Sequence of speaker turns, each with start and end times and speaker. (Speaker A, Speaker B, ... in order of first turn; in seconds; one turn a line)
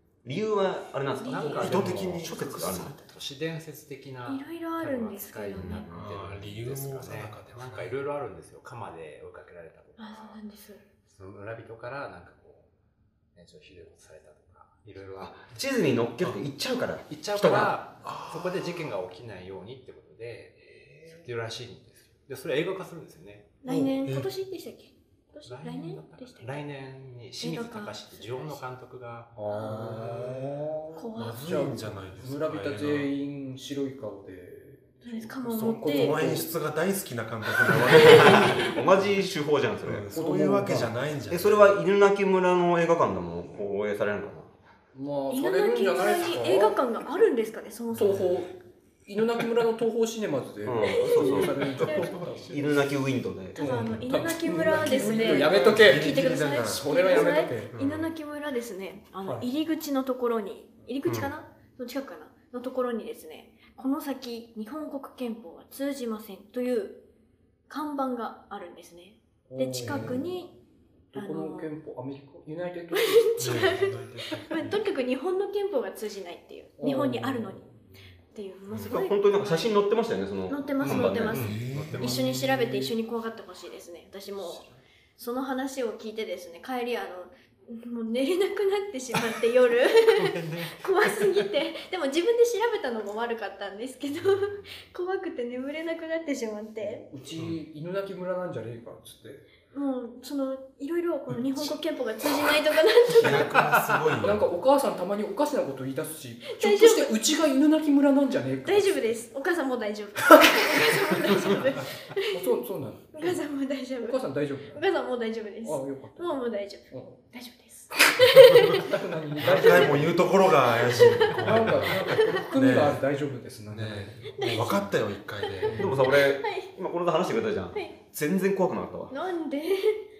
Speaker A: 0.2-3.0
Speaker B: 1.2-1.8
Speaker C: 1.2-10.4
Speaker D: 1.5-3.0
Speaker B: 4.2-5.9
Speaker D: 5.6-8.0
Speaker B: 10.0-10.8
Speaker C: 11.1-12.7
Speaker C: 13.3-15.5
Speaker A: 15.2-17.7
Speaker C: 17.1-23.5
Speaker D: 18.0-18.9
Speaker B: 23.6-26.6
Speaker D: 24.0-24.3
Speaker C: 25.4-29.3
Speaker B: 27.4-28.6
Speaker E: 29.3-36.5
Speaker B: 29.5-30.0
Speaker D: 29.9-30.6
Speaker B: 31.0-31.6
Speaker D: 31.1-33.1
Speaker B: 35.0-36.2
Speaker D: 35.5-38.8
Speaker B: 37.8-38.7
Speaker A: 38.0-40.1
Speaker D: 39.8-41.8
Speaker E: 40.1-40.9
Speaker A: 41.3-44.5
Speaker E: 44.9-46.8
Speaker B: 45.3-48.2
Speaker E: 47.9-48.5
Speaker E: 49.0-52.6
Speaker A: 50.6-53.8
Speaker B: 50.8-52.2
Speaker E: 53.5-57.7
Speaker B: 53.5-67.0
Speaker D: 54.6-58.1
Speaker D: 61.0-61.3
Speaker B: 67.7-70.5
Speaker E: 69.5-70.3
Speaker D: 69.8-70.3
Speaker E: 71.1-73.5
Speaker B: 71.1-71.7
Speaker B: 72.9-77.7
Speaker D: 73.4-74.8
Speaker E: 76.8-77.7
Speaker B: 78.3-79.8
Speaker A: 78.8-81.5
Speaker B: 80.5-84.7
Speaker C: 80.8-82.1
Speaker D: 81.4-82.9
Speaker B: 85.2-97.0
Speaker C: 90.1-91.3
Speaker E: 96.8-99.4
Speaker B: 99.7-103.6
Speaker D: 103.1-104.5
Speaker C: 103.6-104.0
Speaker E: 104.2-109.2
Speaker B: 106.5-107.1
Speaker B: 108.7-112.5
Speaker E: 112.3-113.4
Speaker B: 113.1-118.9
Speaker E: 114.0-114.8
Speaker E: 115.6-117.2
Speaker E: 118.1-120.2
Speaker D: 119.4-123.0
Speaker B: 119.5-120.0
Speaker B: 120.7-122.4
Speaker E: 121.2-124.3
Speaker D: 123.7-126.0
Speaker B: 124.4-126.7
Speaker E: 125.6-126.0
Speaker A: 125.7-129.1
Speaker B: 129.1-130.0